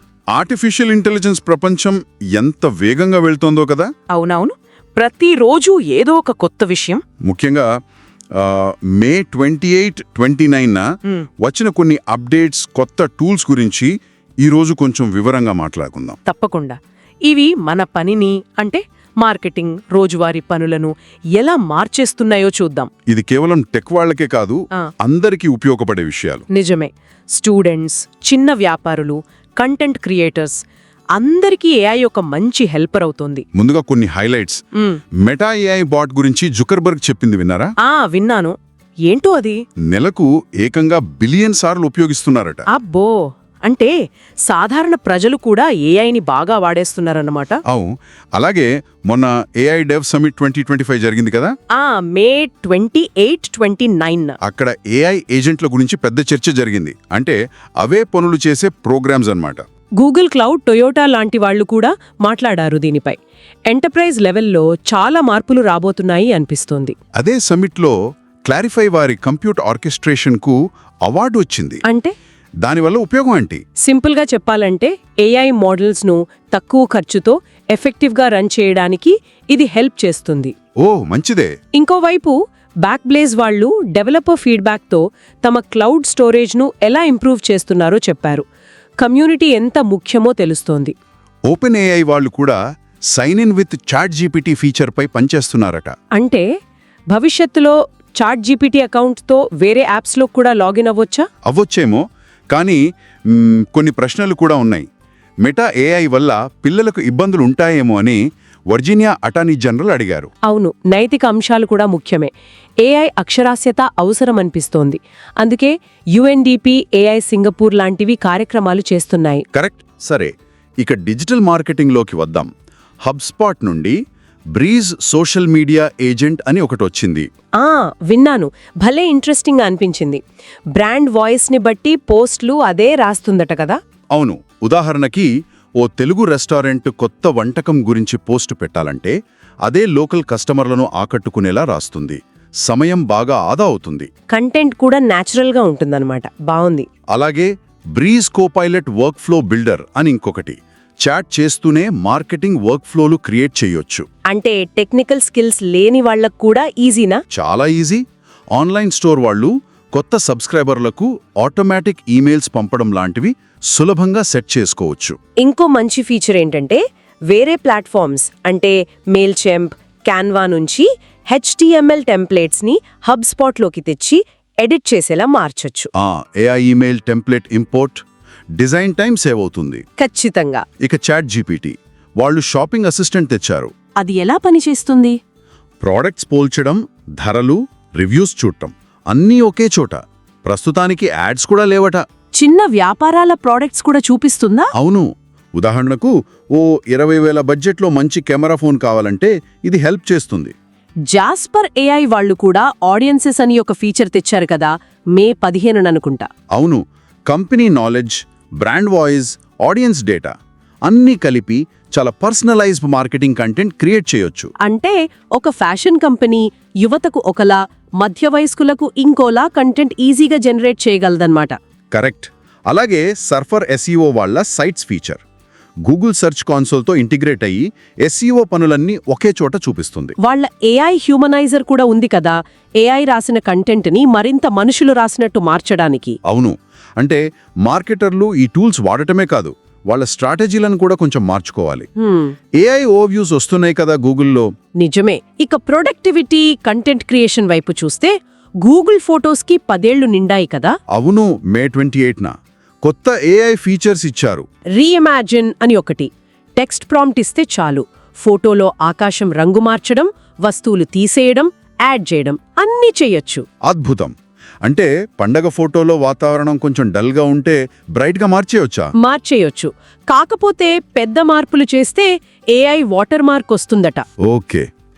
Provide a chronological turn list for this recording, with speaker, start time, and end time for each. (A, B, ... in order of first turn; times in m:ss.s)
0:00.3-0:03.9 A
0:04.1-0:07.0 B
0:07.2-0:07.7 A
0:08.4-0:10.8 A
0:11.4-0:16.2 A
0:16.2-0:22.9 B
0:23.1-0:26.4 A
0:26.5-0:30.6 B
0:31.1-0:33.4 B
0:33.5-0:34.6 A
0:35.2-0:37.7 A
0:37.8-0:38.6 B
0:39.1-0:39.6 B
0:39.9-0:42.6 A
0:42.7-0:43.9 B
0:44.4-0:47.6 B
0:47.7-0:51.5 A
0:51.7-0:54.4 B
0:54.4-0:59.6 A
1:00.0-1:03.2 B
1:03.7-1:06.9 B
1:07.2-1:11.8 A
1:11.8-1:12.1 B
1:12.6-1:13.6 A
1:13.8-1:20.5 B
1:20.8-1:21.5 A
1:21.7-1:28.4 B
1:29.0-1:30.9 B
1:31.5-1:32.6 A
1:33.1-1:35.9 A
1:36.2-1:36.4 B
1:37.1-1:41.2 B
1:41.5-1:42.8 A
1:43.3-1:44.8 A
1:45.4-1:50.3 A
1:50.5-1:52.3 B
1:52.8-1:59.4 B
1:59.5-2:02.5 A
2:03.0-2:04.0 A
2:04.6-2:07.3 A
2:07.6-2:10.2 B
2:10.7-2:13.8 B
2:14.1-2:24.1 A
2:24.3-2:26.9 B
2:27.1-2:34.0 A
2:34.3-2:37.2 B
2:37.3-2:38.0 A
2:38.6-2:45.2 A
2:45.4-2:55.9 B
2:56.0-2:58.0 A
2:58.6-2:59.8 A
3:00.0-3:00.6 B
3:00.8-3:03.7 A
3:04.0-3:05.2 B
3:05.8-3:12.0 A
3:12.4-3:14.7 B
3:14.8-3:20.5 A
3:21.1-3:26.3 B
3:26.6-3:30.3 A
3:30.8-3:34.5 A
3:34.6-3:41.5 B
3:41.9-3:45.2 A
3:45.9-3:50.2 A
3:50.2-3:56.2 B
3:56.2-4:01.8 A
4:02.0-4:02.3 B
4:02.6-4:04.5 A
4:04.8-4:10.8 B
4:10.9-4:14.4 A
4:14.8-4:23.4 B
4:23.6-4:28.9 A
4:29.0-4:34.0 B
4:34.2-4:34.6 A